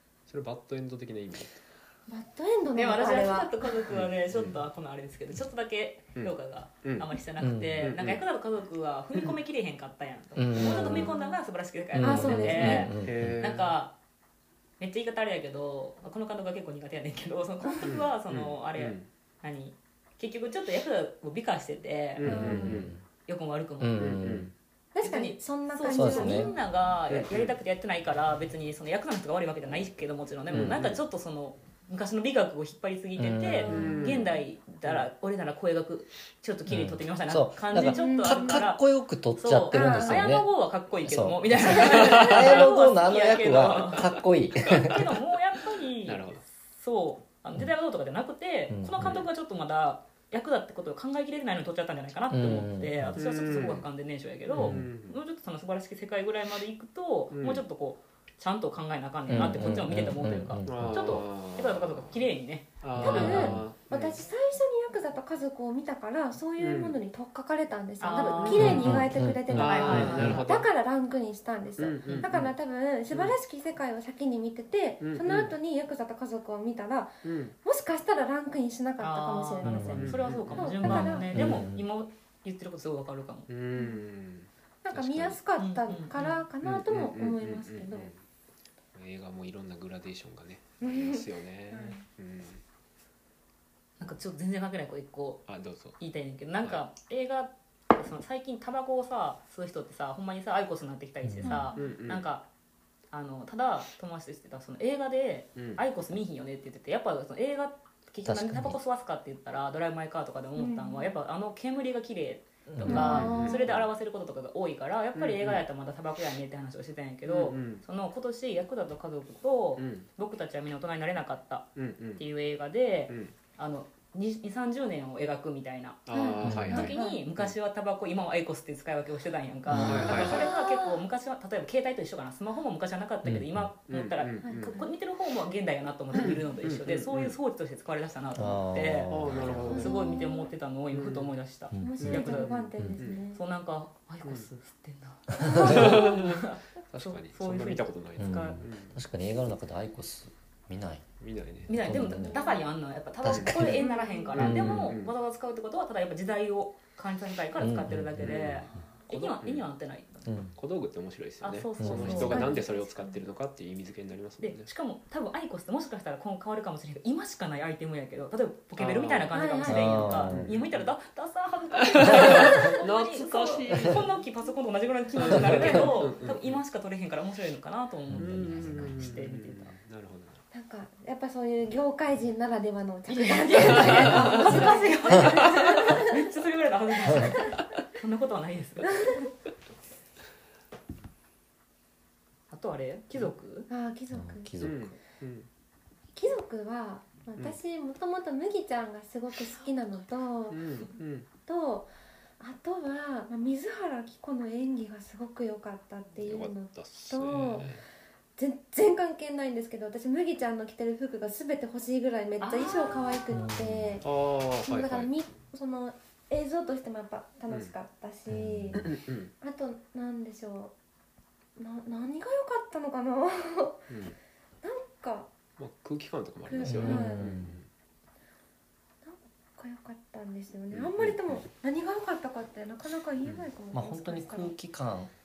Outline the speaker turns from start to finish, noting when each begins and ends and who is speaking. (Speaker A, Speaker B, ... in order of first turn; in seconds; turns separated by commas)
Speaker A: 0.3-1.6, Speaker B: 2.1-3.7, Speaker C: 2.8-14.0, Speaker A: 3.9-4.7, Speaker A: 6.2-7.1, Speaker D: 7.4-7.9, Speaker A: 7.8-8.2, Speaker D: 10.3-11.1, Speaker B: 10.6-11.4, Speaker D: 11.9-13.4, Speaker B: 12.0-12.9, Speaker A: 13.0-13.7, Speaker C: 14.8-22.3, Speaker A: 17.8-19.1, Speaker A: 22.2-22.9, Speaker D: 22.2-23.0, Speaker B: 22.3-22.9, Speaker C: 23.3-24.2, Speaker D: 23.8-24.5, Speaker A: 24.0-24.5, Speaker B: 24.9-26.6, Speaker C: 25.0-38.8, Speaker D: 25.9-26.5, Speaker A: 27.1-27.5, Speaker D: 30.5-30.8, Speaker A: 30.5-31.0, Speaker D: 33.2-33.9, Speaker B: 33.6-34.1, Speaker A: 33.6-35.1, Speaker D: 36.7-40.5, Speaker B: 37.8-38.6, Speaker C: 39.4-44.1, Speaker B: 39.7-40.3, Speaker D: 41.0-45.0, Speaker A: 41.9-42.6, Speaker A: 44.6-45.0, Speaker C: 44.7-63.5, Speaker A: 46.0-46.4, Speaker D: 48.7-49.2, Speaker A: 49.0-49.3, Speaker D: 52.3-53.2, Speaker A: 53.1-53.9, Speaker A: 54.5-55.2, Speaker D: 54.6-54.9, Speaker A: 57.3-57.6, Speaker D: 59.3-61.2, Speaker A: 60.7-62.2, Speaker A: 62.8-64.2, Speaker B: 63.0-81.5, Speaker D: 63.1-63.6, Speaker A: 66.6-67.0, Speaker C: 68.0-69.0, Speaker A: 68.4-69.0, Speaker D: 68.6-70.4, Speaker A: 69.5-70.7, Speaker C: 69.6-70.5, Speaker A: 71.8-72.5, Speaker C: 72.0-72.3, Speaker A: 73.1-73.4, Speaker A: 75.0-75.5, Speaker A: 77.2-77.5, Speaker C: 79.0-83.5, Speaker D: 79.6-80.2, Speaker A: 80.0-80.8, Speaker D: 80.8-81.9, Speaker A: 83.5-85.4, Speaker B: 83.8-84.0, Speaker B: 84.8-88.1, Speaker C: 85.6-86.4, Speaker A: 86.6-88.2, Speaker A: 89.0-92.6, Speaker B: 90.8-92.0, Speaker C: 94.0-95.5, Speaker A: 95.5-96.0, Speaker C: 96.0-102.5, Speaker D: 101.2-101.6, Speaker B: 101.4-102.0, Speaker A: 101.8-102.3, Speaker C: 103.1-126.1, Speaker A: 105.5-105.8, Speaker D: 108.2-108.8, Speaker B: 110.6-111.2, Speaker D: 112.7-113.3, Speaker A: 112.8-113.9, Speaker B: 112.9-113.7, Speaker A: 115.2-115.6, Speaker A: 117.3-117.8, Speaker A: 119.8-120.1, Speaker A: 121.8-122.2, Speaker A: 123.1-123.3, Speaker A: 126.1-127.5, Speaker B: 126.1-127.2, Speaker D: 126.4-126.9, Speaker C: 126.7-142.5, Speaker D: 129.7-130.3, Speaker A: 129.8-130.5, Speaker B: 130.1-131.0, Speaker D: 133.2-133.7, Speaker A: 133.9-134.8, Speaker B: 134.4-134.9, Speaker A: 136.2-137.4, Speaker D: 138.3-139.9, Speaker A: 139.1-140.0, Speaker B: 139.6-140.5, Speaker A: 140.9-141.3, Speaker D: 141.7-142.3, Speaker B: 141.8-143.4, Speaker A: 142.0-143.2, Speaker C: 143.3-148.6, Speaker D: 145.3-146.0, Speaker B: 145.4-146.2, Speaker A: 145.5-149.0, Speaker D: 148.2-151.1, Speaker A: 151.2-151.8, Speaker C: 151.7-160.4, Speaker D: 151.7-152.4, Speaker B: 152.2-152.7, Speaker D: 153.2-155.0, Speaker A: 153.3-153.8, Speaker B: 153.5-154.4, Speaker A: 154.3-155.1, Speaker D: 157.6-158.4, Speaker A: 158.2-159.7, Speaker D: 160.3-160.6, Speaker A: 160.6-164.7, Speaker C: 161.4-162.7, Speaker D: 161.8-162.4, Speaker B: 162.1-163.2, Speaker C: 164.4-179.7, Speaker A: 168.8-169.4, Speaker B: 169.3-170.3, Speaker D: 169.7-170.5, Speaker A: 170.3-170.9, Speaker A: 171.8-174.1, Speaker D: 172.0-172.6, Speaker B: 172.3-172.8, Speaker A: 175.2-176.6, Speaker D: 175.4-175.9, Speaker D: 178.1-179.1, Speaker A: 178.1-180.4, Speaker B: 180.5-186.2, Speaker C: 183.1-189.1, Speaker A: 183.6-184.7, Speaker D: 187.1-187.4, Speaker B: 187.1-187.6, Speaker B: 188.9-189.3, Speaker C: 192.5-193.7, Speaker B: 193.7-194.5, Speaker D: 194.1-194.9, Speaker A: 194.6-195.5, Speaker B: 196.2-200.7, Speaker A: 200.5-201.3, Speaker B: 201.5-207.7, Speaker A: 206.2-207.8, Speaker B: 208.4-214.1, Speaker C: 212.4-213.1, Speaker D: 213.3-214.0, Speaker A: 214.0-215.2, Speaker B: 214.7-218.9, Speaker D: 218.3-218.8, Speaker A: 218.8-219.3, Speaker B: 219.4-220.7, Speaker B: 221.6-223.9, Speaker A: 223.9-224.2, Speaker B: 224.6-225.3, Speaker A: 225.6-227.7, Speaker B: 226.5-227.4, Speaker D: 226.6-227.6, Speaker B: 229.0-234.6, Speaker A: 230.7-231.4, Speaker A: 233.2-233.5, Speaker D: 233.7-235.1